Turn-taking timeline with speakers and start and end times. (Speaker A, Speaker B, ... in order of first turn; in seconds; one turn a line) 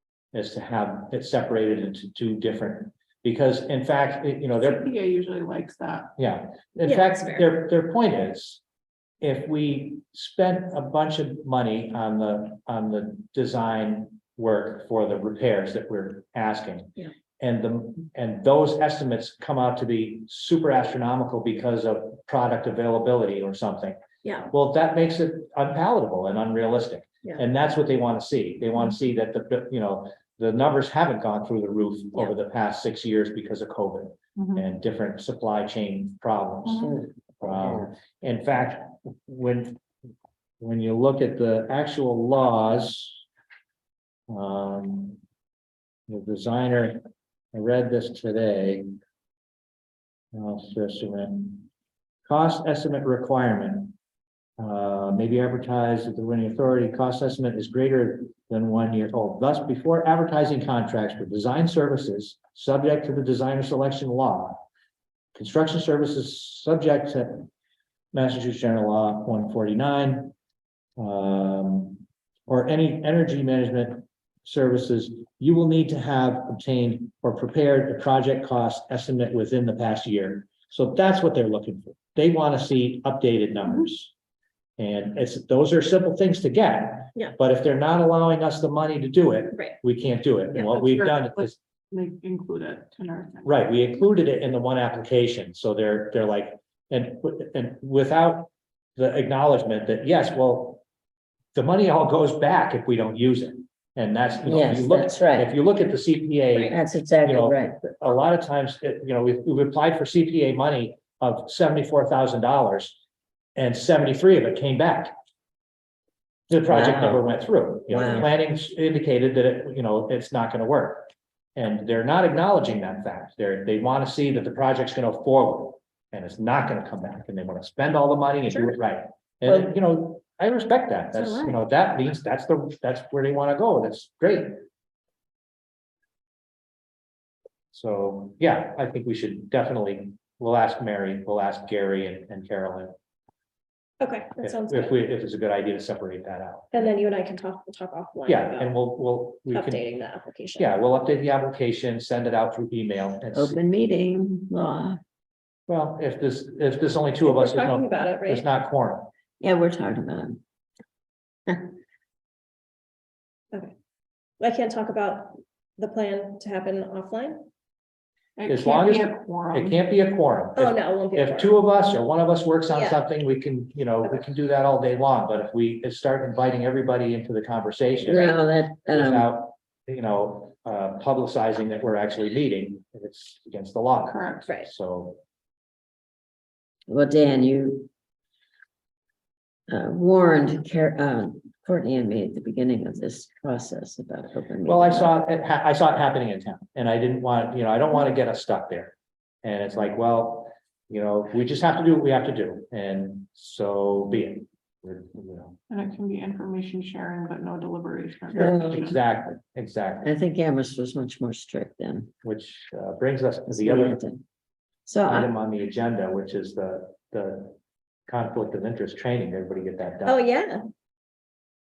Speaker A: 0.3-4.9
Speaker B: 4.5-6.1
Speaker A: 6.2-8.6
Speaker C: 6.8-7.5
Speaker A: 9.2-24.0
Speaker C: 24.2-24.5
Speaker A: 24.5-36.9
Speaker B: 34.4-34.6
Speaker B: 36.6-37.1
Speaker A: 37.4-39.8
Speaker A: 40.6-43.2
Speaker A: 44.3-45.2
Speaker A: 46.1-47.0
Speaker A: 47.5-48.9
Speaker A: 50.3-51.7
Speaker A: 52.3-53.9
Speaker A: 54.6-64.6
Speaker A: 65.3-67.5
Speaker A: 68.1-70.3
Speaker A: 71.0-84.1
Speaker B: 83.6-83.9
Speaker A: 84.8-91.5
Speaker B: 90.5-93.6
Speaker A: 93.4-100.8
Speaker A: 101.5-113.0
Speaker D: 104.5-105.5
Speaker D: 106.7-107.8
Speaker A: 113.5-115.1
Speaker A: 116.5-134.5
Speaker D: 116.7-117.2
Speaker D: 117.9-118.3
Speaker C: 128.5-128.8
Speaker D: 131.2-131.6
Speaker A: 137.7-142.9
Speaker C: 144.0-145.0
Speaker A: 144.4-146.9
Speaker C: 146.7-148.7
Speaker A: 148.3-149.8
Speaker C: 149.5-150.7
Speaker A: 150.6-153.6
Speaker D: 153.3-155.0
Speaker A: 155.7-159.1
Speaker C: 157.2-158.5
Speaker D: 159.4-160.4
Speaker C: 164.4-167.4
Speaker B: 168.4-169.8
Speaker A: 168.5-185.2
Speaker C: 170.6-171.6
Speaker C: 172.7-173.0
Speaker D: 178.0-179.3
Speaker C: 178.1-178.3
Speaker B: 184.0-184.5
Speaker D: 186.9-187.9
Speaker D: 189.7-195.1
Speaker A: 194.6-205.6
Speaker B: 205.7-209.0
Speaker A: 208.3-210.1
Speaker D: 208.3-208.9
Speaker D: 210.0-212.1
Speaker A: 212.2-214.0
Speaker D: 213.5-214.2
Speaker D: 214.8-215.3
Speaker A: 215.0-217.6
Speaker A: 218.1-220.2
Speaker C: 220.0-220.6